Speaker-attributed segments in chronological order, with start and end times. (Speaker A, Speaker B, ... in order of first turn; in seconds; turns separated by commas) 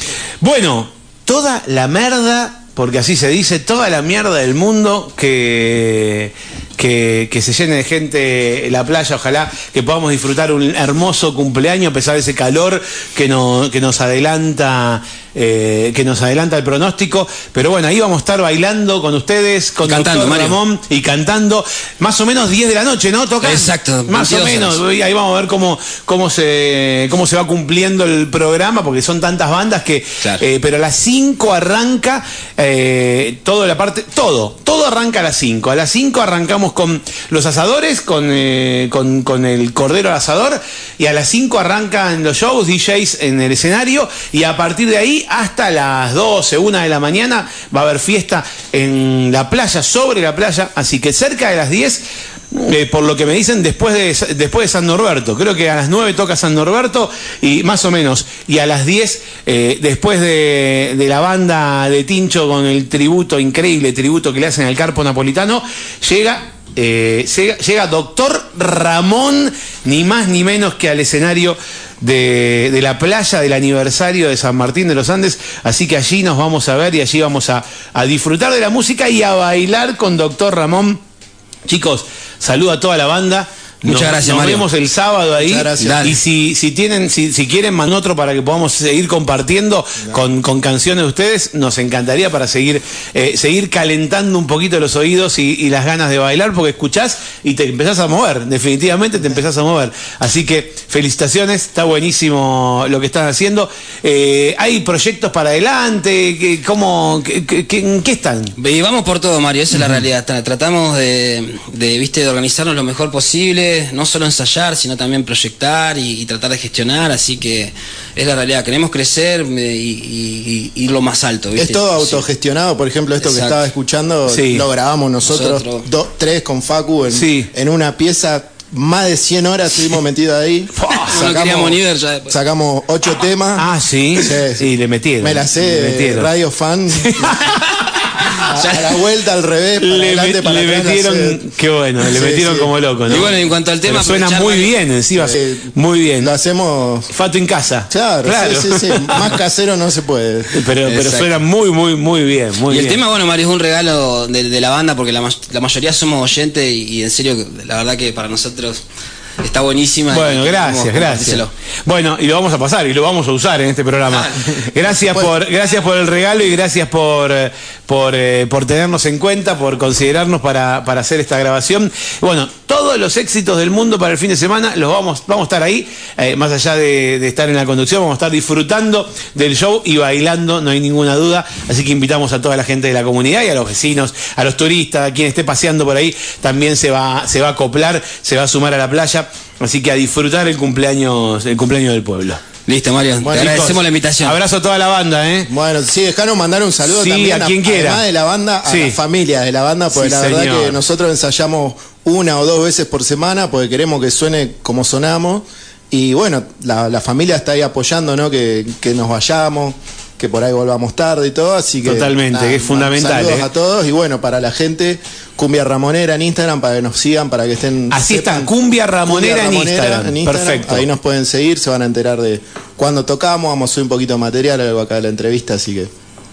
Speaker A: 0.4-81.0, Speaker B: 19.8-20.6, Speaker B: 23.4-24.8, Speaker A: 81.7-108.5, Speaker B: 83.8-84.7, Speaker C: 85.4-86.1, Speaker B: 85.5-86.2, Speaker B: 108.6-122.2, Speaker C: 121.6-134.7, Speaker B: 123.2-123.6, Speaker A: 124.3-124.7, Speaker B: 125.2-125.9, Speaker A: 127.1-127.5, Speaker A: 130.7-131.2, Speaker B: 130.9-132.3, Speaker A: 133.6-136.3, Speaker C: 135.2-137.4, Speaker A: 136.9-138.6, Speaker C: 138.4-141.4, Speaker B: 138.5-138.9, Speaker A: 139.8-146.3, Speaker C: 142.0-142.7, Speaker B: 143.1-144.8, Speaker C: 145.1-147.1, Speaker A: 147.1-149.4, Speaker C: 147.9-150.6, Speaker A: 150.5-153.0, Speaker B: 150.8-151.4, Speaker B: 152.7-158.8, Speaker B: 159.4-161.5, Speaker A: 160.1-192.4, Speaker B: 164.1-164.6, Speaker C: 165.0-165.3, Speaker B: 192.7-194.4, Speaker C: 193.2-193.6, Speaker A: 193.3-195.5, Speaker C: 195.5-218.5, Speaker A: 196.9-198.0, Speaker A: 198.7-199.0, Speaker A: 199.9-200.8, Speaker A: 211.8-213.5, Speaker A: 217.9-220.9, Speaker C: 219.1-225.9